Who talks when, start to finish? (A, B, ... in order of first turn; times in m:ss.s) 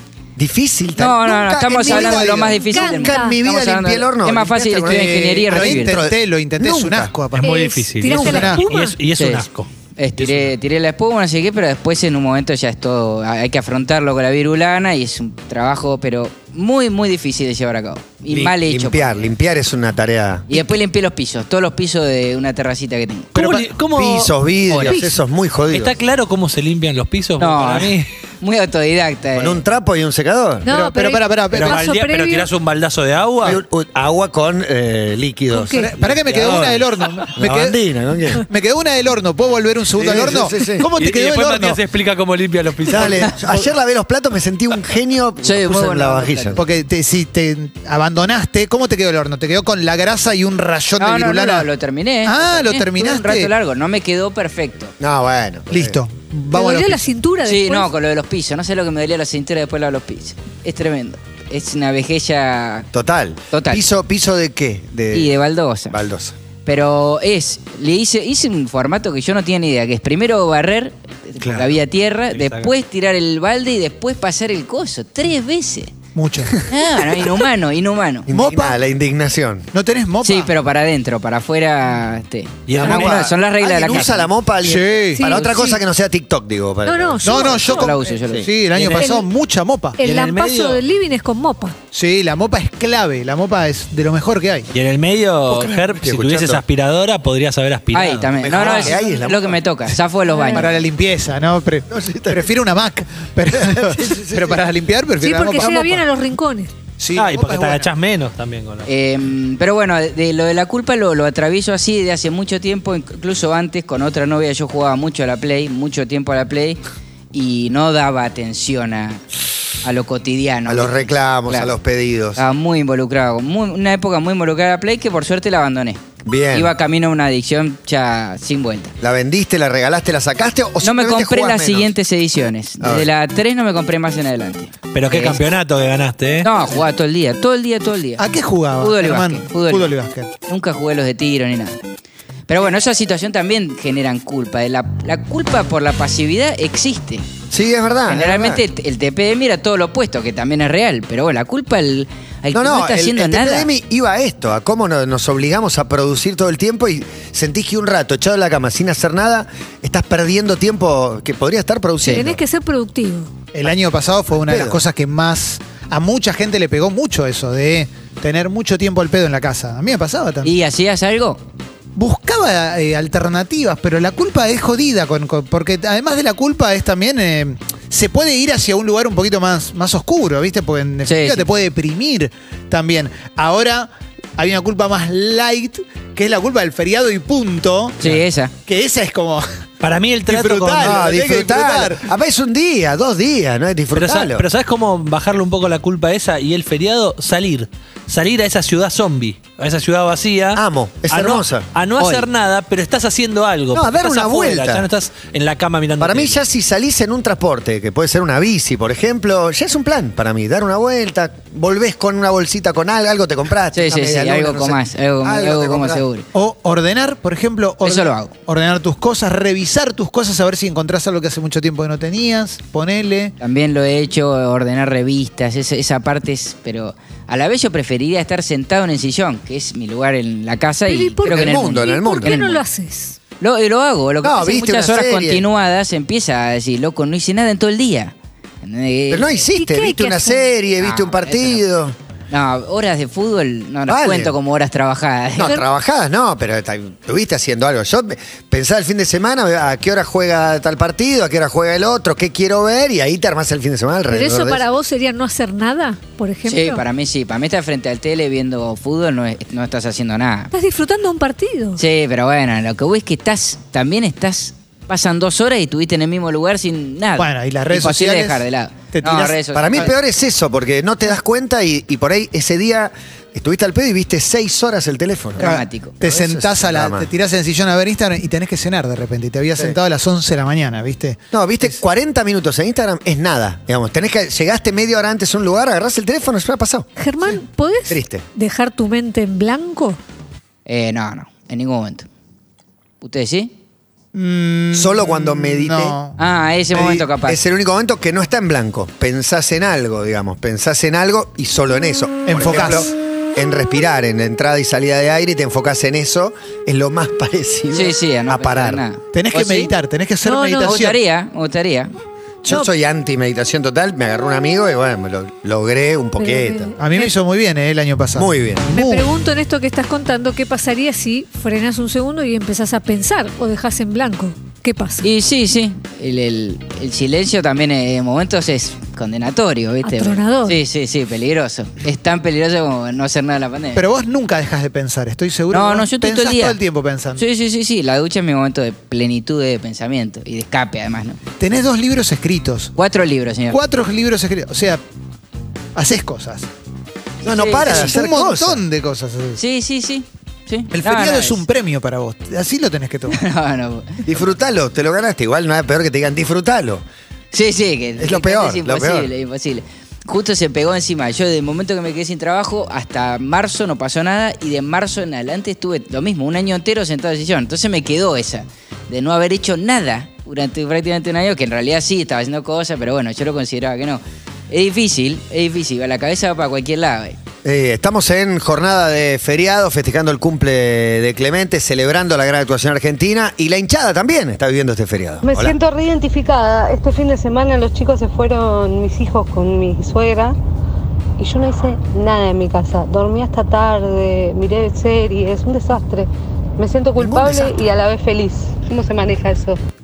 0:00.4-0:07.1 A
0:01.0-0:06.0 B
0:01.7-0:02.7 C
0:02.6-0:03.4 D
0:04.9-0:08.6 C
0:07.4-0:10.5 E
0:07.4-0:09.0 D
0:09.2-0:09.5 B
0:10.0-0:19.3 B
0:18.3-0:20.5 A
0:20.5-0:23.4 B
0:23.4-0:24.3 E
0:23.4-0:23.7 C
0:23.9-0:26.0 A
0:24.7-0:25.1 B
0:24.8-0:25.2 D
0:25.7-0:28.1 E
0:27.4-0:29.6 B
0:29.4-0:30.7 A
0:30.6-0:32.5 D
0:30.7-0:31.8 C
0:31.5-0:33.6 E
0:33.4-0:35.8 A
0:35.5-0:35.9 D
0:35.6-0:37.8 C
0:36.0-0:37.3 E
0:37.4-0:38.5 A
0:38.4-0:41.8 C
0:40.0-0:40.3 E
0:40.0-0:40.9 A
0:41.0-0:43.3 E
0:42.9-0:46.6 A
0:45.4-0:46.6 B
0:46.6-0:51.7 C
0:51.0-0:54.9 B
0:52.2-0:53.5 C
0:55.0-0:56.0 A
0:55.7-0:57.1 C
0:56.5-0:57.9 D
0:57.4-1:02.9 B
1:02.9-1:05.4 A
1:03.5-1:03.8 B
1:05.1-1:06.0 B
1:05.9-1:06.4 A
1:06.6-1:15.9 B
1:11.4-1:11.8 A
1:12.3-1:12.7 E
1:16.2-1:17.2 C
1:16.7-1:18.3 B
1:18.3-1:19.7 A
1:18.3-1:18.8 C
1:19.7-1:20.5 C
1:20.2-1:24.3 B
1:22.7-1:23.3 E
1:22.7-1:27.6 A
1:24.6-1:25.7 C
1:25.1-1:25.6 D
1:26.8-1:27.9 D
1:27.2-1:30.1 C
1:27.6-1:28.9 B
1:28.2-1:28.5 A
1:28.8-1:29.0 E
1:29.0-1:29.3 D
1:30.0-1:31.8 D
1:30.0-1:30.8 E
1:31.9-1:34.7 C
1:34.7-1:38.9 E
1:35.5-1:36.6 A
1:37.9-1:40.7 B
1:38.4-1:39.6 A
1:40.3-1:40.7 D
1:40.5-1:46.0 C
1:41.9-1:42.5 A
1:43.5-1:44.7 A
1:45.2-1:46.7 D
1:47.0-1:47.9 C
1:47.1-1:48.9 E
1:48.9-1:56.8 B
1:57.3-1:59.2 B
1:59.8-2:01.7 B
2:00.7-2:02.4 A
2:02.4-2:06.0 B
2:06.2-2:06.7 A
2:06.5-2:08.9 B
2:09.0-2:11.9 A
2:10.8-2:15.4 B
2:12.8-2:13.1 A
2:14.9-2:16.5 E
2:16.4-2:19.9 B
2:18.2-2:20.3 C
2:20.5-2:21.8 B
2:22.5-2:27.3 B
2:27.5-2:28.6 A
2:28.1-2:33.7 B
2:32.5-2:42.4 A
2:42.0-2:43.3 D
2:43.5-2:50.5 C
2:44.3-2:44.8 A
2:50.4-2:51.4 B
2:52.0-3:08.0 C
3:01.0-3:01.4 B
3:08.0-3:08.5 B
3:08.7-3:09.4 C
3:09.8-3:10.9 E
3:10.3-3:12.0 C
3:10.8-3:14.5 A
3:13.9-3:26.4 E
3:20.6-3:21.7 A
3:22.0-3:22.3 B
3:23.7-3:24.9 A
3:26.0-3:36.0 A
3:33.7-3:36.2 B
3:36.3-3:43.3 C
3:37.8-3:38.3 B
3:43.4-3:52.6 B
3:50.9-3:53.2 D
3:51.3-3:52.4 A
3:53.4-3:59.4 B
3:54.2-3:55.5 A
3:59.1-4:02.0 A
3:59.5-4:00.5 D
4:00.8-4:01.6 B
4:02.3-4:05.6 B
4:03.9-4:04.4 A
4:05.4-4:14.6 A
4:14.1-4:16.8 D
4:16.5-4:20.5 B
4:20.5-4:21.8 D
4:21.8-4:29.9 B
4:27.2-4:29.9 C
4:29.5-4:35.5 A
4:35.4-4:36.0 B
4:35.4-4:41.8 C
4:36.0-4:37.1 A
4:41.3-4:46.9 A
4:47.0-4:50.0 D
4:47.9-4:48.2 A
4:50.7-4:52.1 B
4:53.0-4:53.5 B
4:54.1-4:56.2 C
4:54.7-4:56.0 A
4:56.2-4:57.4 B
4:56.7-5:08.8 A
5:02.3-5:02.9 C
5:07.7-5:09.7 B
5:09.1-5:11.0 C
5:10.2-5:10.8 D
5:10.6-5:11.9 B
5:12.4-5:16.7 A
5:16.2-5:17.1 D
5:16.8-5:19.1 C
5:18.2-5:18.7 A
5:18.7-5:25.1 D
5:25.0-5:33.8 B
5:29.8-5:30.6 D
5:33.8-5:37.2 C
5:35.5-5:36.6 B
5:37.2-5:41.2 B
5:41.4-5:42.7 C
5:42.8-5:43.6 B
5:43.5-5:44.8 C
5:45.8-5:46.5 C
5:47.2-5:48.6 A
5:47.2-5:47.9 B
5:47.6-5:49.4 C
5:49.4-5:51.4 B
5:50.7-5:53.2 C
5:53.1-5:54.0 B
5:54.1-5:56.8 A
5:57.3-6:17.2 B
5:58.0-5:59.1 A
6:17.4-6:25.6 A
6:25.3-6:30.4 F
6:31.2-6:39.6 F
6:37.0-6:37.6 A